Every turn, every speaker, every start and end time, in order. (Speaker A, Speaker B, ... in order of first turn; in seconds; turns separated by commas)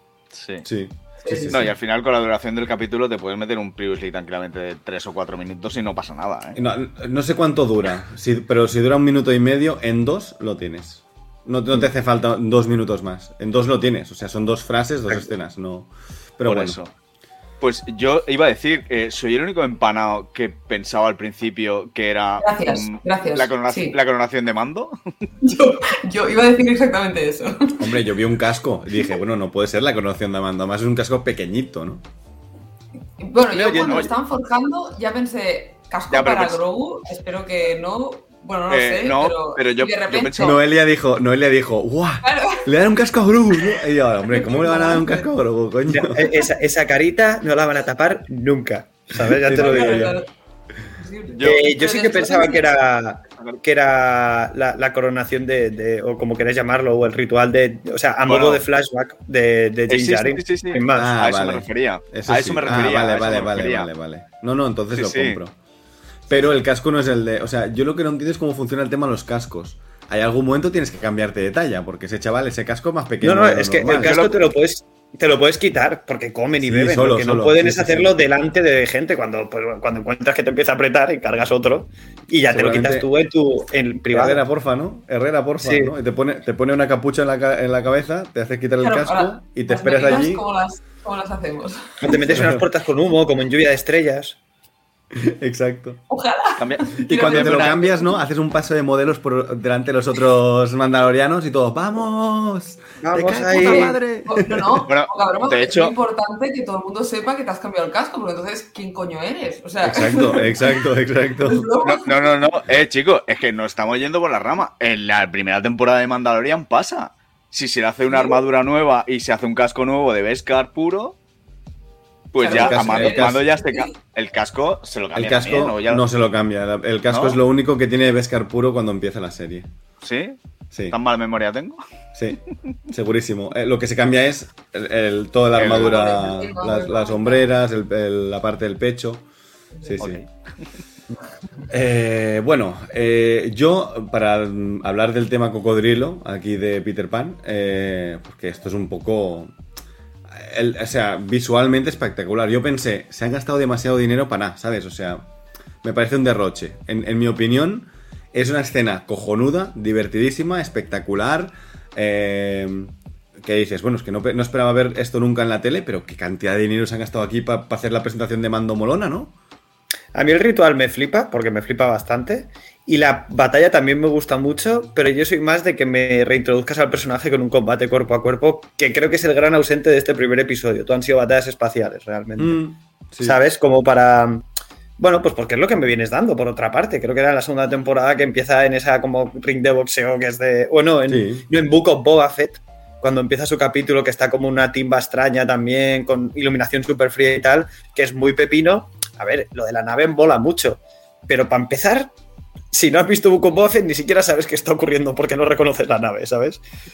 Speaker A: 0.3-0.7, Speaker B: 0.6-1.6, Speaker C: 1.2-1.6, Speaker A: 1.5-6.6, Speaker B: 6.5-16.8, Speaker A: 16.4-16.9, Speaker A: 17.6-25.0, Speaker C: 22.4-24.0, Speaker C: 25.4-27.8, Speaker B: 27.8-32.0, Speaker C: 33.2-40.6, Speaker D: 33.5-34.1, Speaker A: 36.1-36.6, Speaker A: 38.7-40.6, Speaker B: 40.4-46.3, Speaker C: 42.2-42.6, Speaker C: 44.3-45.3, Speaker D: 45.9-50.1, Speaker B: 49.4-50.2, Speaker C: 49.5-50.3, Speaker C: 51.0-52.7, Speaker A: 51.4-51.7, Speaker D: 51.4-61.1, Speaker A: 58.3-58.6, Speaker A: 59.9-63.9, Speaker B: 60.9-65.5, Speaker A: 64.9-65.4, Speaker B: 66.3-74.3, Speaker D: 73.2-84.4, Speaker A: 73.9-74.4, Speaker B: 76.6-78.2, Speaker B: 82.5-83.1, Speaker B: 84.1-90.4, Speaker D: 85.6-85.9, Speaker C: 88.8-92.5, Speaker D: 92.0-94.4, Speaker B: 92.3-92.7, Speaker B: 95.1-96.0, Speaker C: 96.1-98.2, Speaker A: 96.6-97.8, Speaker B: 97.0-104.8, Speaker D: 103.0-104.0, Speaker C: 103.5-110.8, Speaker A: 104.9-106.0, Speaker B: 109.8-111.7, Speaker C: 111.4-112.1, Speaker A: 111.8-121.2, Speaker C: 118.1-118.4, Speaker A: 122.3-126.0, Speaker C: 122.4-123.9, Speaker B: 122.4-123.5, Speaker B: 125.2-129.7, Speaker A: 127.1-127.4, Speaker A: 130.0-130.4, Speaker A: 130.9-131.8, Speaker B: 132.2-139.2, Speaker A: 135.6-136.0, Speaker C: 135.7-137.5, Speaker C: 139.8-140.0, Speaker B: 139.8-140.2, Speaker A: 140.0-140.3, Speaker B: 141.7-149.5, Speaker B: 150.3-155.3, Speaker B: 155.8-169.3, Speaker D: 170.1-182.6, Speaker B: 182.4-183.4, Speaker D: 183.2-184.5, Speaker D: 185.0-202.1, Speaker B: 191.1-191.5, Speaker D: 202.7-206.6